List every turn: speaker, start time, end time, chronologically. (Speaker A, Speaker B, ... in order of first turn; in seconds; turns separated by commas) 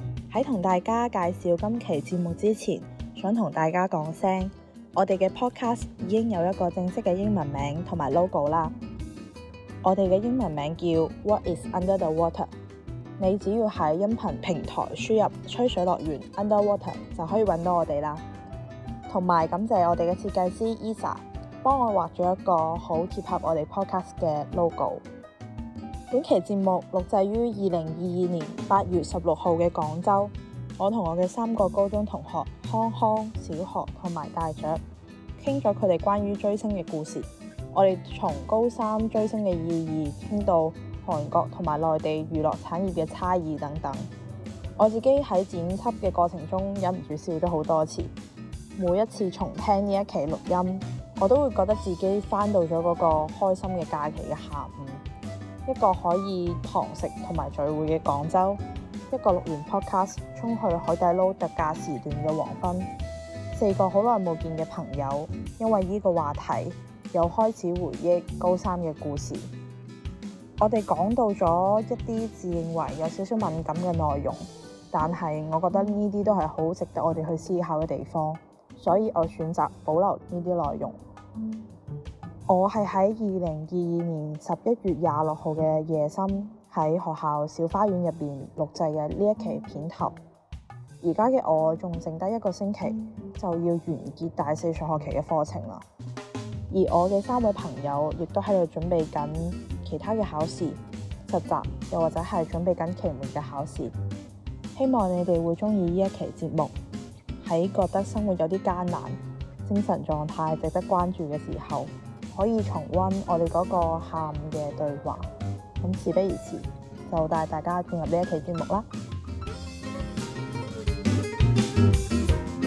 Speaker A: 0.3-8.8, Speaker A: 9.8-12.5, Speaker A: 13.2-18.2, Speaker A: 19.1-25.0, Speaker A: 26.1-34.8, Speaker A: 35.4-44.1, Speaker A: 44.8-48.1, Speaker A: 48.8-55.0, Speaker A: 55.7-62.9, Speaker A: 63.5-69.5, Speaker A: 70.6-81.0, Speaker A: 82.5-90.2, Speaker A: 91.0-95.8, Speaker A: 96.7-103.9, Speaker A: 104.8-106.8, Speaker A: 107.4-115.3, Speaker A: 115.8-118.9